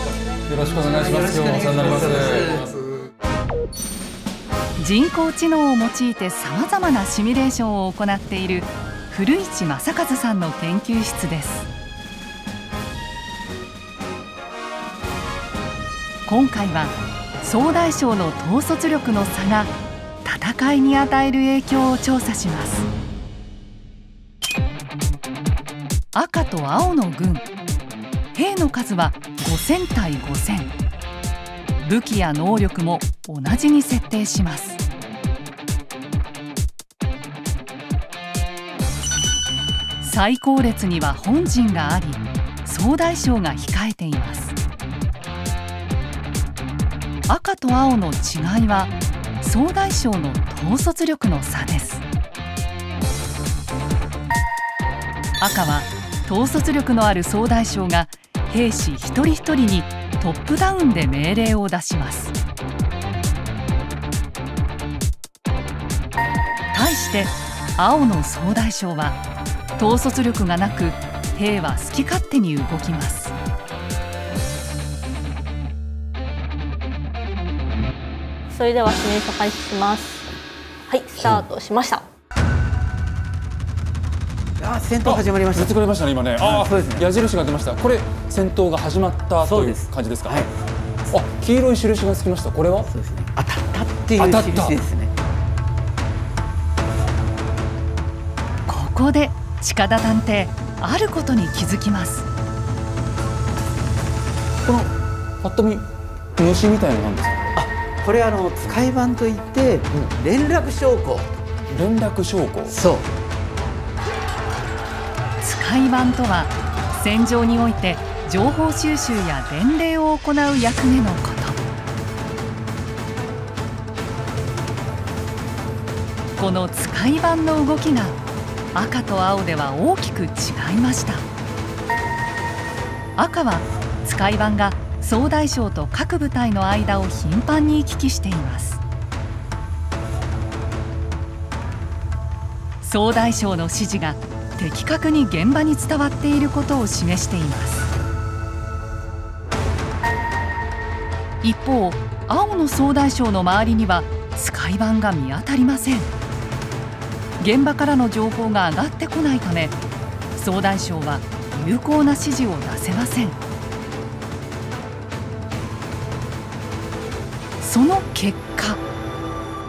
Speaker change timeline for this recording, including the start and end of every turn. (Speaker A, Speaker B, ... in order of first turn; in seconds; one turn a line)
Speaker A: 0.5-2.7
Speaker B: 1.0-2.7
Speaker C: 4.8-11.7
Speaker C: 16.2-19.7
Speaker C: 20.2-22.9
Speaker C: 26.1-27.5
Speaker C: 28.3-30.7
Speaker C: 31.8-34.8
Speaker C: 40.0-44.5
Speaker C: 47.3-52.0
Speaker C: 55.4-62.3
Speaker C: 66.7-69.2
Speaker C: 69.8-73.3
Speaker D: 78.5-80.3
Speaker D: 80.9-82.0
Speaker A: 81.2-81.4
Speaker B: 84.6-85.8
Speaker A: 85.0-90.5
Speaker B: 86.4-87.1
Speaker B: 89.4-90.5
Speaker A: 91.1-92.9
Speaker B: 92.8-95.1
Speaker A: 94.1-94.8
Speaker C: 98.7-102.2
Speaker A: 104.6-105.8
Speaker A: 106.4-107.5
Speaker B: 107.5-111.3
Speaker A: 111.7-112.8
Speaker B: 112.7-113.1
Speaker C: 115.4-121.6
Speaker C: 126.4-128.2
Speaker C: 128.7-131.2
Speaker C: 133.2-138.8
Speaker C: 142.8-147.9
Speaker C: 151.4-156.1
Speaker C: 157.4-159.8
Speaker C: 160.3-163.4
Speaker C: 167.6-168.8